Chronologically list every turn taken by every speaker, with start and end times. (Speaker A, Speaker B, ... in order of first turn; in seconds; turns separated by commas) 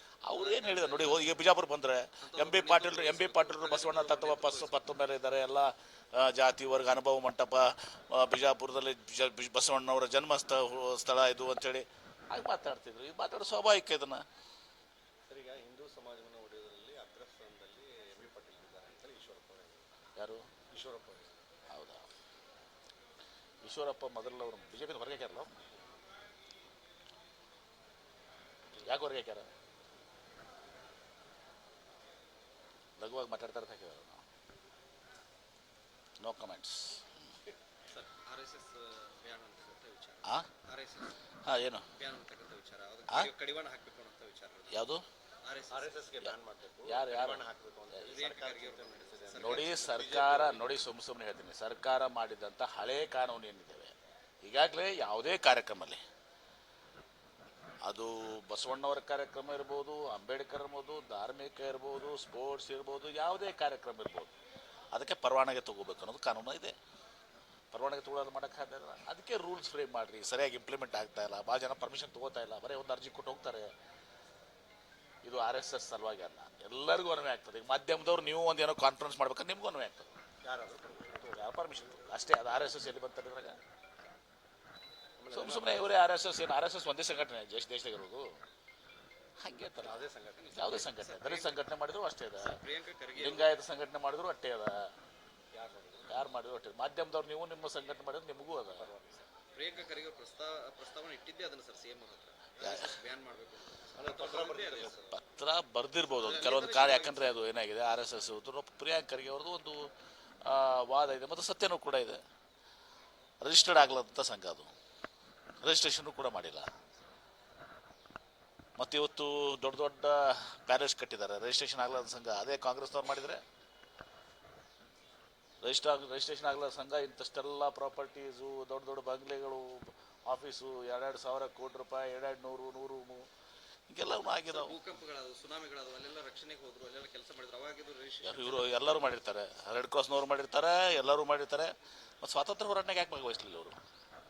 Speaker A: 0.2-14.2, Speaker B: 0.3-1.4, Speaker B: 2.2-4.9, Speaker C: 15.3-19.9, Speaker A: 20.2-20.5, Speaker C: 20.7-21.3, Speaker A: 21.7-22.0, Speaker A: 23.6-25.5, Speaker A: 28.8-29.5, Speaker A: 33.0-34.2, Speaker A: 36.2-37.0, Speaker B: 37.9-41.1, Speaker A: 41.5-41.9, Speaker B: 41.9-44.9, Speaker A: 44.7-45.0, Speaker B: 45.4-46.1, Speaker C: 45.7-50.8, Speaker A: 46.9-47.5, Speaker B: 48.0-50.0, Speaker A: 49.4-56.0, Speaker A: 57.9-64.3, Speaker A: 64.9-66.8, Speaker A: 67.7-73.7, Speaker A: 75.2-80.1, Speaker C: 80.4-81.8, Speaker A: 81.3-83.6, Speaker C: 85.2-86.0, Speaker A: 85.3-88.3, Speaker A: 89.4-92.6, Speaker C: 89.8-90.7, Speaker B: 90.4-91.7, Speaker B: 92.4-93.5, Speaker A: 93.1-94.9, Speaker C: 95.5-96.1, Speaker A: 96.1-98.9, Speaker C: 98.6-99.3, Speaker B: 99.5-105.0, Speaker A: 102.6-102.9, Speaker C: 104.0-105.2, Speaker A: 105.1-109.9, Speaker B: 106.1-107.4, Speaker A: 110.4-112.2, Speaker A: 113.4-114.7, Speaker A: 115.6-116.7, Speaker A: 118.8-123.4, Speaker A: 125.6-133.3, Speaker A: 133.9-134.8, Speaker B: 134.4-139.0, Speaker A: 138.2-143.8